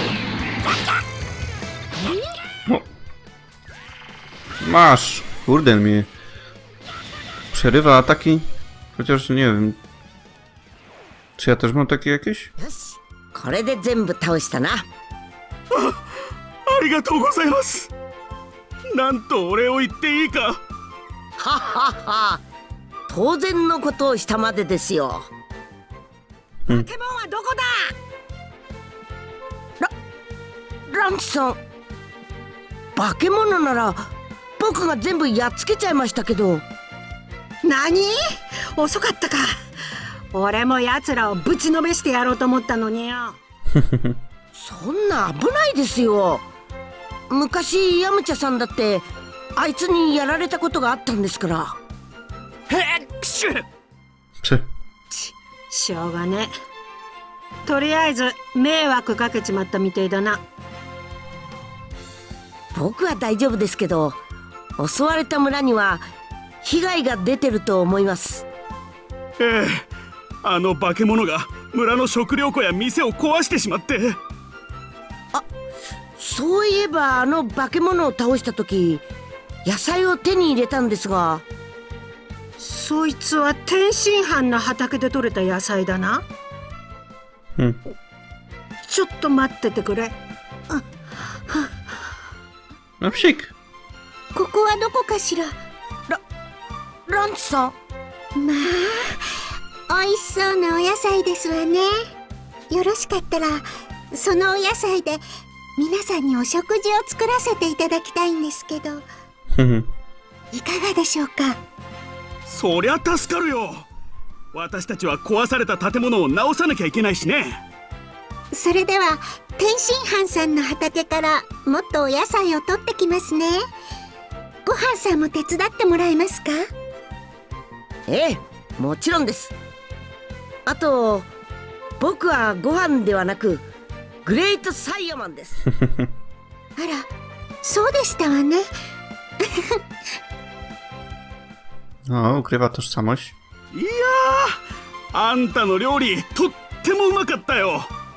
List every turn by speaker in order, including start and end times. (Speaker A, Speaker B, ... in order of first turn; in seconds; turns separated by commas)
Speaker A: 4.6-6.1, Speaker A: 7.5-9.8, Speaker A: 11.4-12.5, Speaker B: 12.6-14.8, Speaker C: 15.7-16.0, Speaker C: 16.7-17.9, Speaker C: 18.9-20.6, Speaker B: 21.4-22.4, Speaker B: 23.1-25.3, Speaker D: 26.7-27.9, Speaker B: 30.9-31.6, Speaker B: 33.0-36.6, Speaker D: 37.6-38.2, Speaker D: 38.8-39.5, Speaker D: 40.3-43.4, Speaker A: 43.7-44.1, Speaker B: 44.5-46.5, Speaker B: 47.3-51.8, Speaker D: 52.7-53.6, Speaker D: 55.1-56.5, Speaker D: 57.6-60.4, Speaker B: 62.7-64.2, Speaker B: 64.8-66.0, Speaker B: 66.6-68.5, Speaker C: 69.4-69.9, Speaker C: 70.4-74.1, Speaker B: 76.2-79.0, Speaker B: 79.6-81.4, Speaker D: 82.6-86.2, Speaker D: 88.8-90.1, Speaker A: 93.0-93.5, Speaker E: 94.3-95.5, Speaker B: 97.1-97.8, Speaker E: 98.4-99.2, Speaker E: 99.9-101.9, Speaker E: 102.7-105.2, Speaker E: 105.8-109.0, Speaker A: 109.5-109.9, Speaker E: 110.5-111.6, Speaker C: 112.5-113.9, Speaker C: 114.5-117.6, Speaker E: 118.5-123.6, Speaker E: 124.7-126.6, Speaker B: 128.1-129.5, Speaker B: 130.7-131.3, Speaker B: 132.0-133.6, Speaker B: 134.2-135.6, Speaker E: 136.8-137.1, Speaker E: 137.6-138.6, Speaker E: 139.4-139.8, Speaker A: 142.1-143.4, Speaker C: 143.7-144.6, Speaker C: 145.1-147.9